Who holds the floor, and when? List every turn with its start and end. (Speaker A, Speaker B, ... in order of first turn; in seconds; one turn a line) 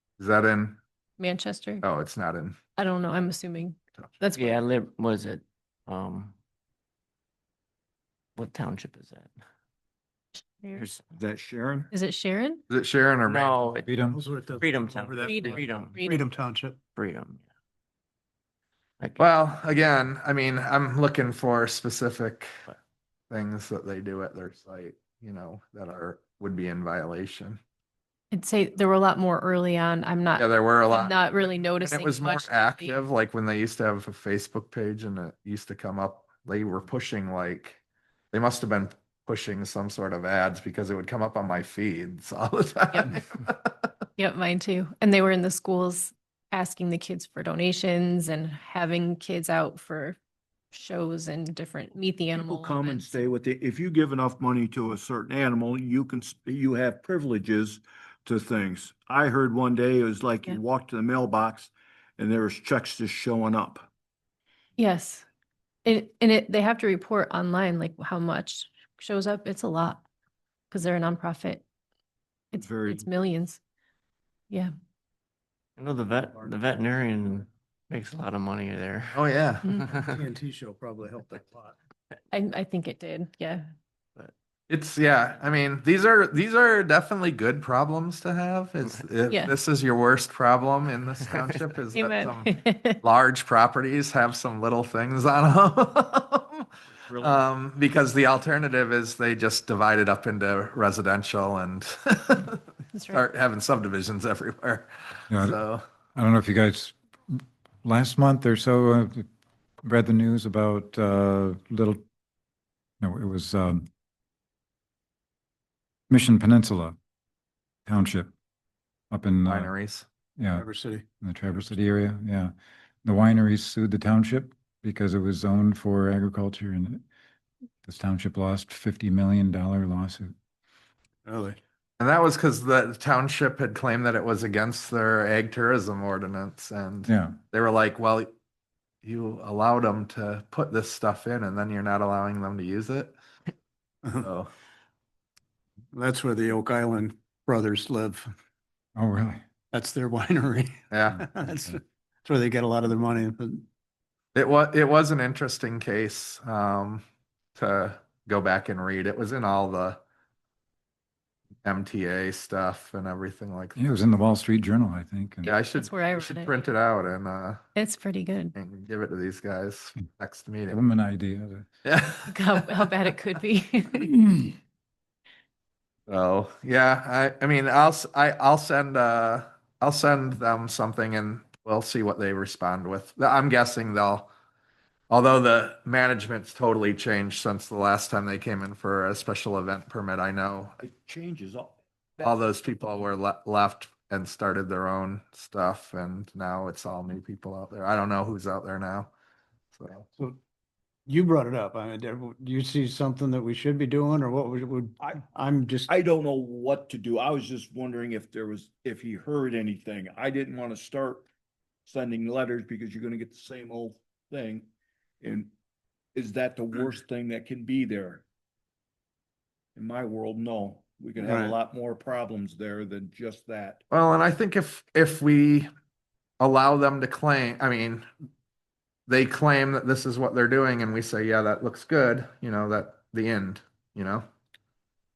Speaker A: 0.2-0.8
Speaker B: 1.2-1.9
Speaker A: 1.8-2.6
Speaker B: 2.8-4.6
Speaker C: 4.4-6.3
Speaker C: 8.4-9.3
Speaker C: 10.7-11.0
Speaker D: 11.2-11.9
Speaker B: 11.9-12.6
Speaker A: 12.7-13.8
Speaker C: 13.2-13.9
Speaker E: 13.8-14.2
Speaker F: 14.1-16.8
Speaker C: 14.6-16.1
Speaker B: 15.2-16.2
Speaker C: 17.0-17.4
Speaker A: 19.2-22.5
Speaker A: 23.3-27.6
Speaker B: 28.3-33.0
Speaker A: 30.4-37.8
Speaker A: 38.3-43.9
Speaker B: 42.9-43.2
Speaker B: 44.2-50.2
Speaker B: 50.7-53.2
Speaker D: 52.3-63.9
Speaker B: 64.8-65.3
Speaker B: 65.8-70.0
Speaker B: 70.7-71.7
Speaker B: 72.5-73.6
Speaker D: 72.6-73.1
Speaker C: 75.8-80.0
Speaker A: 79.1-79.7
Speaker F: 80.1-81.8
Speaker B: 82.3-83.7
Speaker A: 84.7-96.7
Speaker B: 89.3-89.5
Speaker B: 92.0-93.0
Speaker D: 97.1-97.4
Speaker A: 97.2-105.8
Speaker B: 102.9-103.2
Speaker E: 105.3-105.6
Speaker E: 106.2-109.2
Speaker E: 109.8-112.0
Speaker E: 113.0-113.9
Speaker E: 116.1-117.0
Speaker E: 117.9-118.3
Speaker E: 119.1-119.7
Speaker A: 119.5-120.1
Speaker E: 120.4-120.7
Speaker F: 120.5-121.0
Speaker E: 121.2-122.5
Speaker E: 123.0-127.0
Speaker E: 127.8-130.3
Speaker F: 131.3-131.6
Speaker A: 132.0-138.3
Speaker E: 137.1-137.4
Speaker A: 139.0-143.2
Speaker A: 144.2-144.5
Speaker F: 145.9-148.3
Speaker E: 149.0-149.4
Speaker F: 149.7-153.7
Speaker A: 150.9-151.2
Speaker E: 151.4-151.8
Speaker A: 154.3-157.0
Speaker A: 157.6-160.0
Speaker A: 161.6-163.9
Speaker E: 163.8-165.5
Speaker B: 165.4-166.6
Speaker A: 165.4-167.7
Speaker B: 167.8-168.6
Speaker A: 168.6-170.8
Speaker E: 170.7-171.7
Speaker A: 171.8-172.6
Speaker B: 172.3-174.4
Speaker A: 176.1-184.3
Speaker A: 185.1-190.8
Speaker D: 190.8-191.8
Speaker A: 192.2-199.1
Speaker A: 199.7-200.1
Speaker F: 201.1-205.9
Speaker D: 205.9-211.3
Speaker D: 211.9-214.7
Speaker D: 215.2-215.5
Speaker D: 216.2-218.2
Speaker D: 219.8-223.8
Speaker F: 221.2-221.6
Speaker A: 223.9-225.7
Speaker A: 226.4-228.1
Speaker A: 229.1-234.2